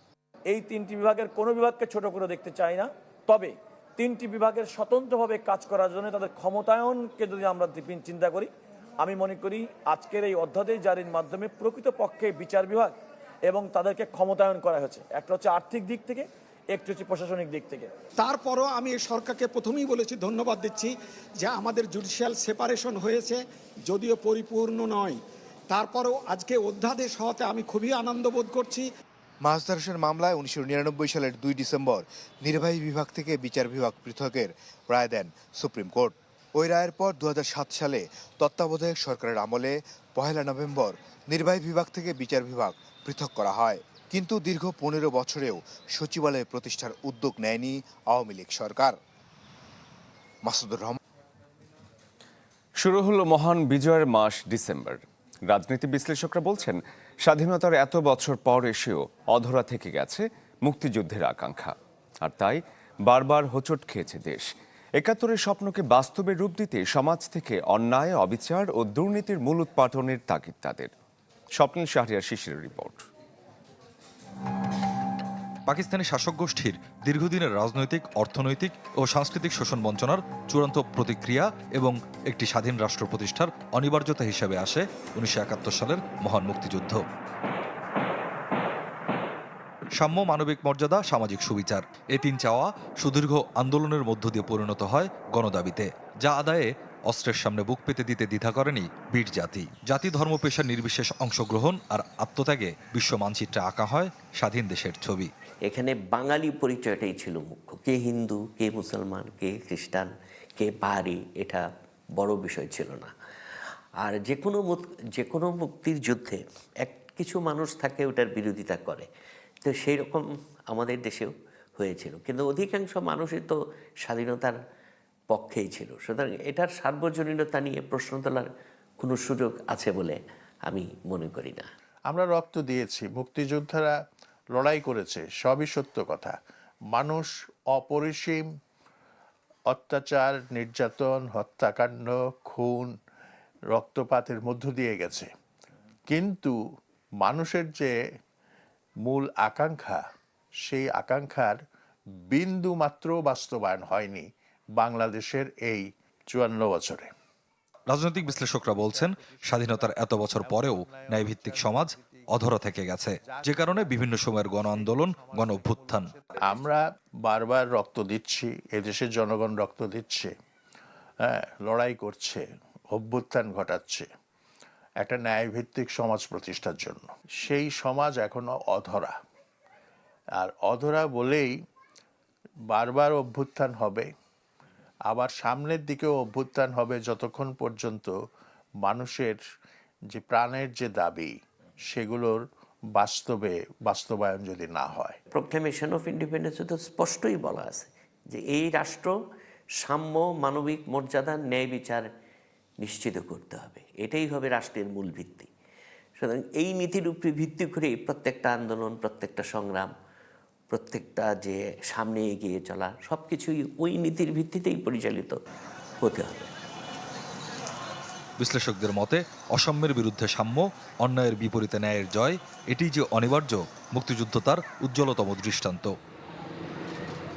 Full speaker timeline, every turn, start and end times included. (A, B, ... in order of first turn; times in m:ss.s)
0:00.5-0:17.9 A
0:18.2-0:28.9 B
0:29.4-0:49.0 C
0:50.4-0:51.0 C
0:52.8-1:04.4 D
1:05.0-1:10.9 D
1:11.6-1:13.0 D
1:15.7-1:27.0 E
1:30.0-1:45.3 E
1:45.6-1:53.1 F
1:54.0-1:59.1 F
1:59.6-2:04.6 F
2:05.3-2:11.7 F
2:12.1-2:14.0 G
2:14.5-2:16.4 G
2:16.9-2:18.5 G
2:19.7-2:22.9 G
2:23.7-2:25.3 G
2:26.1-2:26.6 G
2:27.2-2:27.9 G
2:29.0-2:30.0 G
2:30.6-2:31.6 G
2:32.3-2:37.1 G
2:37.9-2:46.1 E
2:38.3-2:42.4 G
2:43.2-2:50.3 G
2:51.2-2:54.1 G
2:55.0-2:59.1 G
3:00.4-3:01.5 G
3:02.7-3:04.1 G
3:05.1-3:08.2 G
3:08.8-3:09.4 G
3:10.1-3:11.3 G
3:11.9-3:12.4 G
3:13.0-3:15.2 G
3:15.3-3:19.1 F
3:19.8-3:22.1 F
3:22.8-3:25.5 F
3:26.2-3:29.9 F
3:30.7-3:35.4 F
3:36.0-3:36.5 F
3:38.4-3:45.9 E